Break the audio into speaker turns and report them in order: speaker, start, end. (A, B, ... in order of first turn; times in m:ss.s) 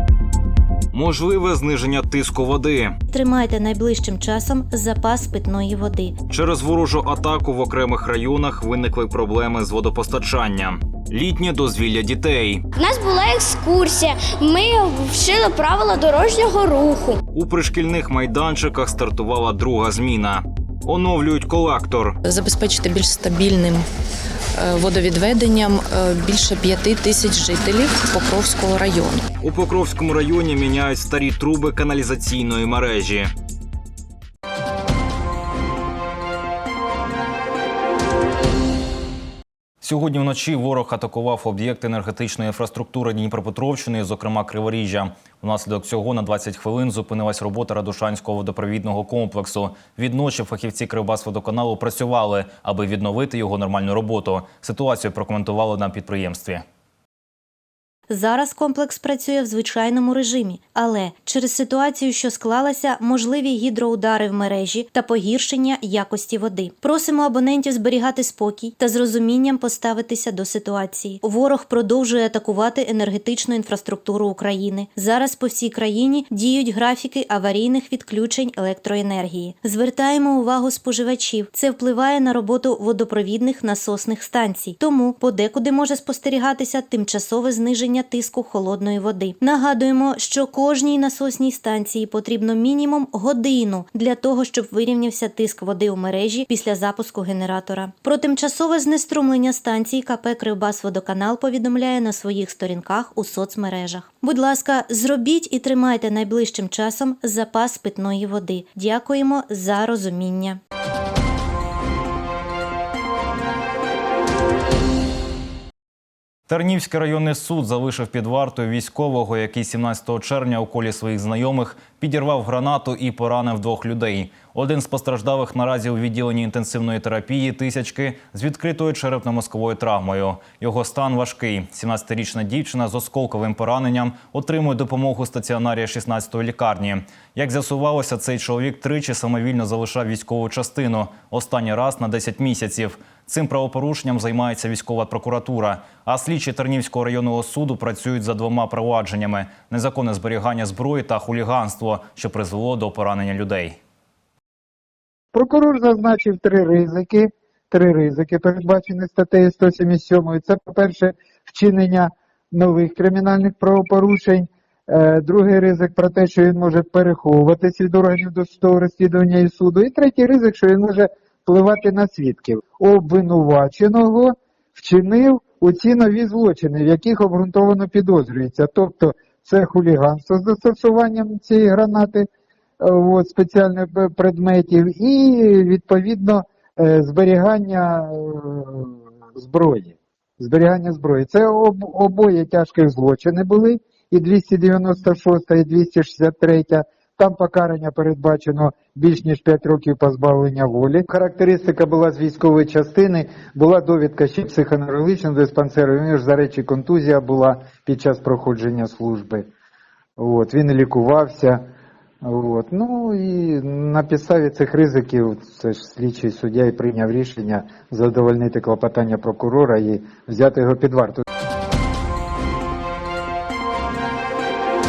0:00.9-0:03.0 A
0:03.1-0:06.1 B
0:06.3-0:12.6 A
0:12.8-0:17.2 C
0:17.3-0:22.2 A
0:22.2-0:23.8 D
0:24.6-0:29.2 D
0:29.4-0:33.3 A
0:39.8-0:56.6 A
0:58.1-1:50.6 B
1:56.5-2:33.8 A
2:35.3-3:02.3 E
3:02.8-3:29.5 E
3:30.2-3:31.6 E
3:32.2-3:41.2 E